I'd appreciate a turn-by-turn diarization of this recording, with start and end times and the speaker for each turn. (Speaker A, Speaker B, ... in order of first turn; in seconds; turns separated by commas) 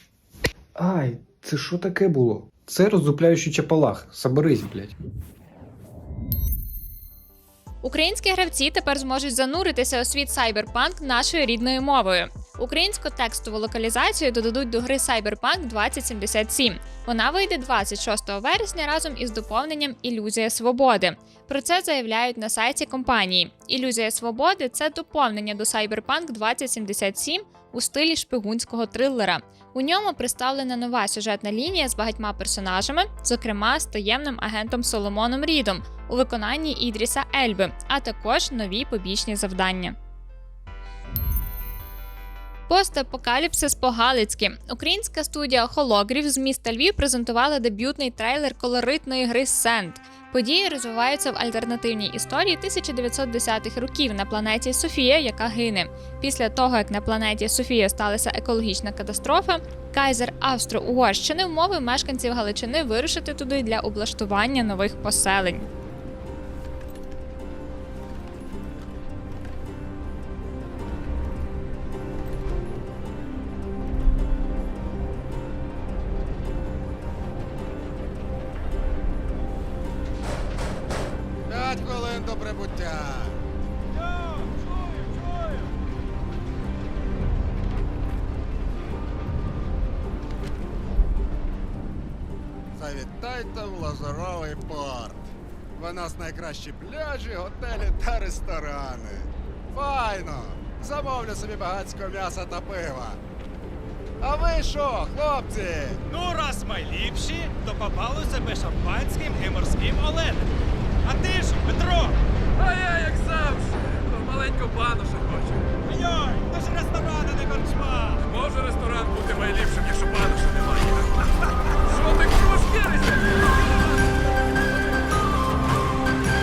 Speaker A: 0.8-5.0, Speaker B: 7.8-39.9, Speaker B: 42.7-65.7, Speaker C: 81.5-83.4, Speaker C: 92.7-103.2, Speaker C: 104.2-106.0, Speaker D: 106.1-110.5, Speaker D: 111.0-112.2, Speaker E: 112.6-115.7, Speaker D: 115.9-118.2, Speaker E: 118.2-121.1, Speaker E: 121.9-123.2